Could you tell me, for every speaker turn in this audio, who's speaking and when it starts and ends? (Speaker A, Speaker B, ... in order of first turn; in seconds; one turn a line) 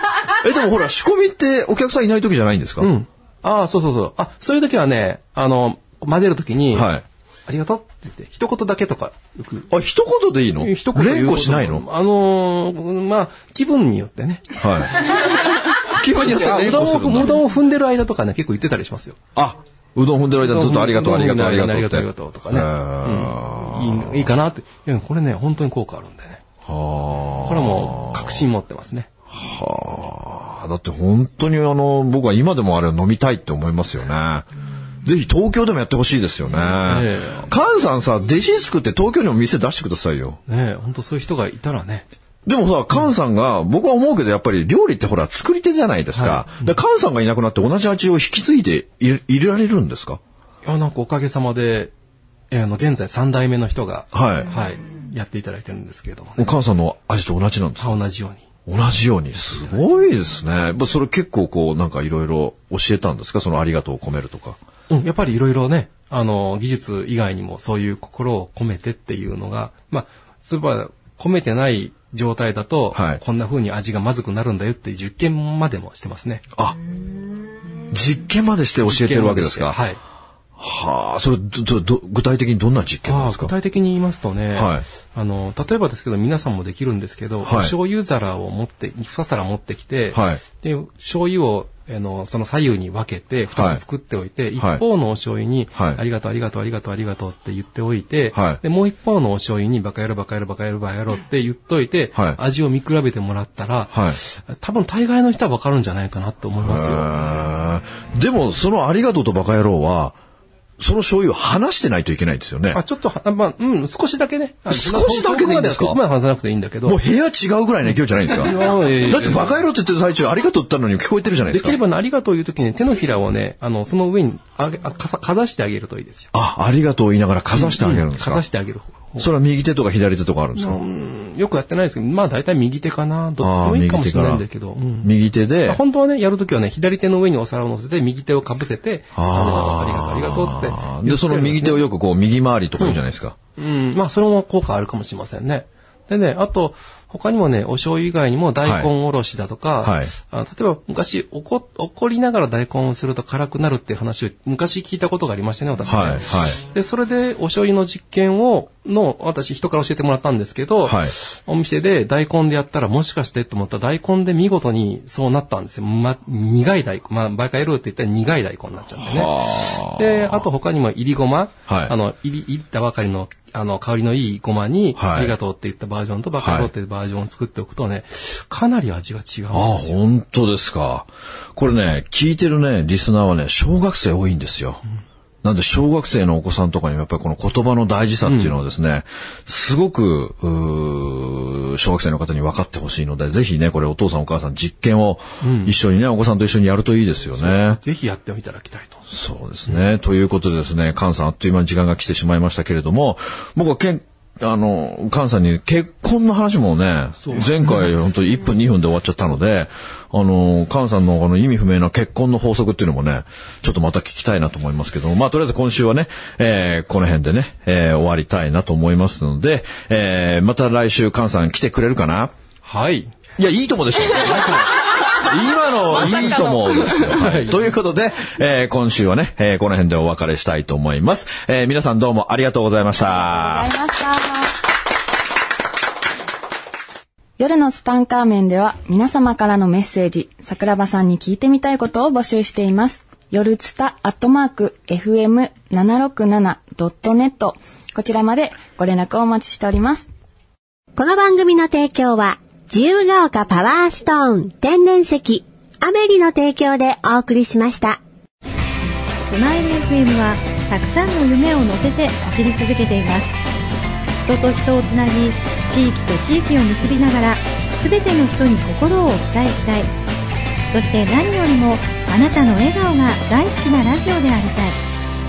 Speaker A: 0.3-2.9
Speaker B: 2.8-6.9
Speaker A: 6.7-7.0
Speaker B: 7.5-9.7
Speaker A: 9.7-11.8
Speaker B: 10.6-15.1
Speaker A: 14.6-15.0
Speaker A: 15.8-17.4
Speaker B: 16.1-19.2
Speaker A: 19.3-24.2
Speaker B: 20.4-26.4
Speaker A: 26.6-28.4
Speaker B: 27.4-29.1
Speaker A: 29.3-34.5
Speaker A: 35.0-40.4
Speaker B: 36.8-37.5
Speaker B: 40.5-42.0
Speaker A: 42.5-50.2
Speaker B: 46.1-46.7
Speaker B: 50.6-51.9
Speaker B: 52.5-56.5
Speaker A: 54.1-54.5
Speaker A: 56.4-58.0
Speaker B: 57.8-58.4
Speaker A: 58.6-64.6
Speaker B: 64.9-76.4
Speaker A: 72.9-73.2
Speaker A: 77.9-79.8
Speaker B: 78.8-80.0
Speaker A: 80.6-83.5
Speaker B: 83.1-107.1
Speaker A: 84.5-84.8
Speaker A: 87.4-87.7
Speaker A: 90.1-90.4
Speaker A: 93.5-93.8
Speaker A: 95.7-96.0
Speaker A: 98.3-98.6
Speaker A: 103.9-104.2
Speaker A: 106.6-110.2
Speaker A: 110.8-112.8
Speaker B: 112.7-117.0
Speaker A: 114.7-116.0
Speaker A: 116.8-121.8
Speaker B: 118.3-119.6
Speaker B: 121.5-126.3
Speaker A: 126.3-128.4
Speaker B: 127.5-129.3
Speaker A: 129.2-130.8
Speaker B: 130.5-135.1
Speaker A: 133.4-134.4
Speaker A: 135.0-135.8
Speaker B: 135.6-141.8
Speaker A: 139.1-143.3
Speaker B: 143.6-180.0
Speaker A: 148.6-148.9
Speaker A: 149.8-150.1
Speaker A: 155.8-156.6
Speaker A: 160.8-161.1
Speaker A: 169.0-170.4
Speaker A: 171.7-171.9
Speaker A: 174.9-175.3
Speaker A: 176.4-176.7
Speaker A: 179.5-184.8
Speaker A: 185.4-197.8
Speaker B: 188.2-188.5
Speaker B: 195.4-195.7
Speaker B: 197.4-199.0
Speaker A: 199.1-222.3
Speaker B: 207.2-207.5
Speaker B: 222.6-223.1
Speaker A: 223.4-233.7
Speaker B: 227.1-227.6
Speaker C: 233.3-234.5
Speaker C: 237.4-250.1
Speaker D: 250.9-258.0
Speaker E: 259.3-263.3
Speaker E: 264.2-269.9
Speaker E: 270.7-274.8